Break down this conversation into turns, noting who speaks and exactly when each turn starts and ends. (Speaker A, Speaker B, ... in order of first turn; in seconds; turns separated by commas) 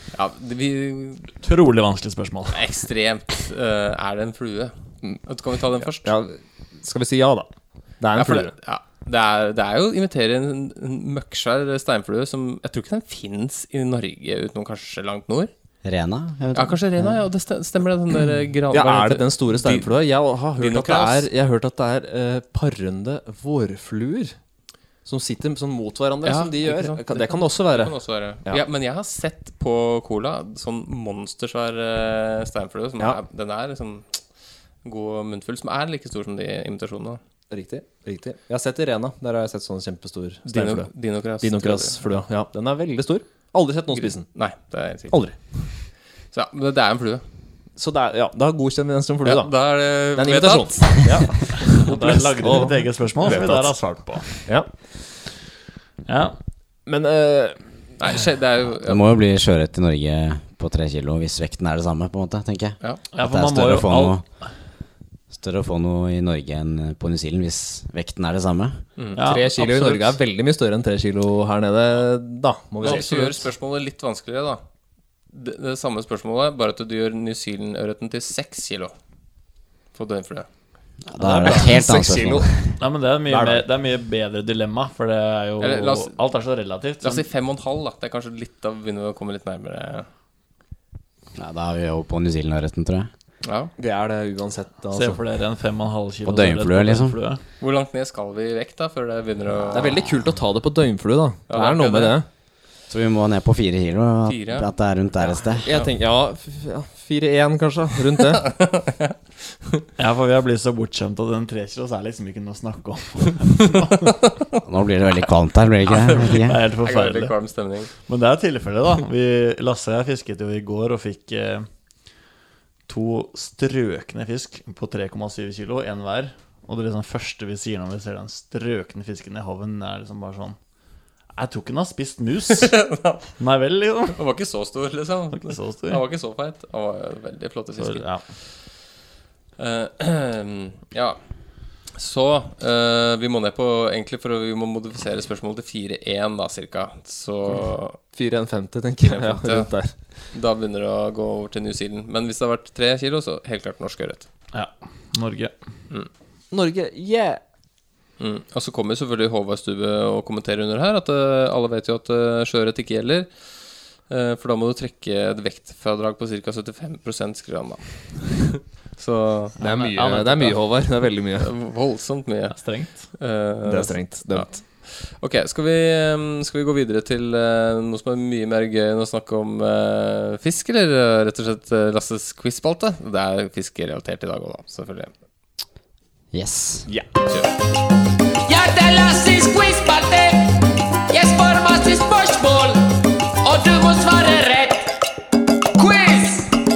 Speaker A: 0.1-1.3, Speaker B: 1.4-2.6, Speaker A: 2.5-6.1, Speaker C: 6.0-8.5, Speaker A: 8.2-15.5, Speaker D: 15.8-16.8, Speaker A: 16.5-20.0, Speaker C: 18.7-24.4, Speaker A: 20.5-21.3, Speaker C: 25.0-28.6, Speaker A: 26.2-37.2, Speaker C: 37.5-44.5, Speaker A: 40.5-42.0, Speaker A: 43.9-47.2, Speaker C: 45.1-45.4, Speaker C: 47.8-54.8, Speaker A: 49.2-51.7, Speaker B: 51.8-54.5, Speaker B: 56.1-56.4, Speaker C: 56.9-57.9, Speaker A: 58.0-59.0, Speaker D: 58.6-64.6, Speaker B: 63.1-64.5, Speaker D: 65.3-68.9, Speaker A: 69.0-69.2, Speaker B: 69.2-70.2, Speaker C: 69.2-73.4, Speaker A: 72.8-74.6, Speaker B: 72.9-73.3, Speaker A: 75.3-78.9, Speaker A: 79.9-80.5, Speaker D: 81.0-82.8, Speaker B: 81.2-81.8, Speaker C: 81.5-82.7, Speaker B: 82.8-87.3, Speaker C: 83.3-83.7, Speaker A: 85.6-86.2, Speaker A: 87.0-90.1, Speaker D: 91.4-93.1, Speaker A: 93.4-93.7, Speaker C: 93.8-95.2, Speaker B: 94.9-97.4, Speaker D: 96.2-97.2, Speaker A: 97.6-100.1, Speaker C: 99.7-102.3, Speaker A: 101.5-102.2, Speaker D: 102.9-105.7, Speaker A: 104.2-104.7, Speaker C: 105.6-108.5, Speaker A: 108.3-109.2, Speaker B: 110.0-114.1, Speaker D: 114.6-116.6, Speaker A: 115.9-117.9, Speaker B: 116.2-121.7, Speaker B: 122.9-130.6, Speaker B: 131.3-134.2, Speaker A: 132.7-133.3, Speaker A: 134.1-138.8, Speaker B: 135.3-136.0, Speaker B: 137.8-138.2, Speaker A: 139.6-148.0, Speaker C: 148.1-150.0, Speaker A: 149.0-154.3, Speaker B: 154.5-155.5, Speaker C: 156.5-157.4, Speaker A: 158.2-169.5, Speaker B: 169.6-170.6, Speaker C: 169.6-171.5, Speaker A: 171.4-185.1, Speaker B: 172.5-173.1, Speaker C: 173.6-174.6, Speaker D: 186.3-186.9, Speaker A: 187.3-187.5, Speaker E: 188.4-195.1, Speaker E: 195.8-196.6